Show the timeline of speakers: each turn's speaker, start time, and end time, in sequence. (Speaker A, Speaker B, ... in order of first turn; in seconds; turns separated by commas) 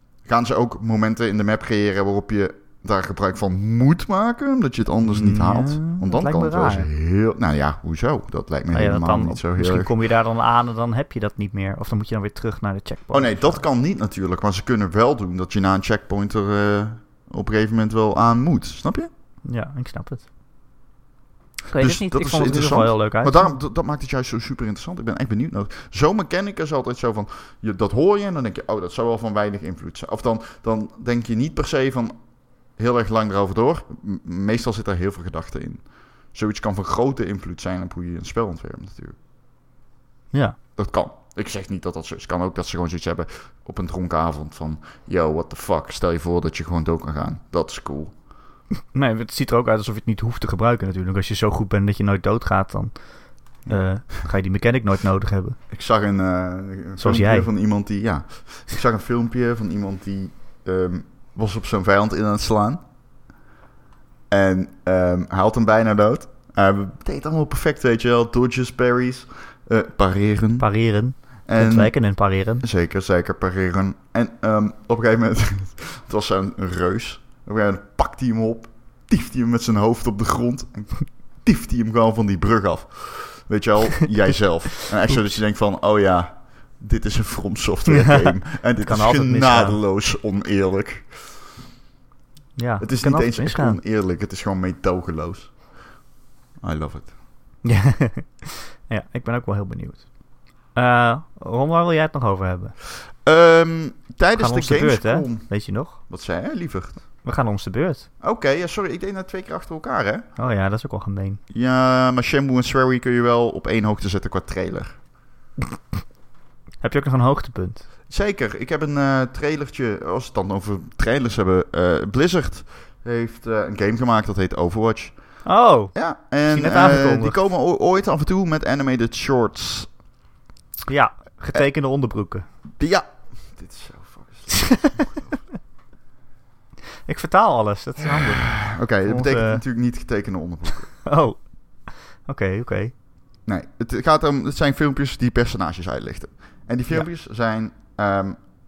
Speaker A: 0.2-9.9, Speaker B: 5.0-6.9, Speaker B: 8.7-13.6, Speaker A: 13.1-19.1, Speaker B: 19.4-20.3, Speaker B: 21.7-23.5, Speaker A: 21.7-32.1, Speaker A: 32.8-39.2, Speaker B: 40.3-40.6, Speaker A: 40.8-48.1, Speaker B: 48.9-53.0, Speaker B: 53.6-55.6, Speaker A: 55.7-62.8, Speaker B: 57.0-57.5, Speaker A: 64.3-70.7, Speaker B: 70.6-72.7, Speaker A: 71.5-72.0, Speaker A: 72.6-91.2, Speaker B: 87.9-89.8, Speaker B: 92.6-93.8, Speaker A: 92.8-95.5, Speaker A: 96.6-97.1, Speaker B: 97.6-100.1, Speaker B: 100.7-102.8, Speaker A: 103.2-105.5, Speaker B: 104.4-106.0, Speaker A: 106.1-107.0, Speaker B: 107.2-108.1, Speaker A: 108.2-110.2, Speaker B: 110.4-111.4, Speaker A: 111.5-115.0, Speaker B: 116.8-117.8, Speaker A: 118.1-125.2, Speaker B: 125.5-126.0, Speaker A: 125.9-129.9, Speaker B: 126.5-127.4, Speaker B: 130.9-132.5, Speaker A: 132.8-135.4, Speaker B: 134.5-135.0, Speaker B: 137.1-139.6, Speaker A: 138.2-141.0, Speaker B: 141.0-142.9, Speaker A: 143.5-148.4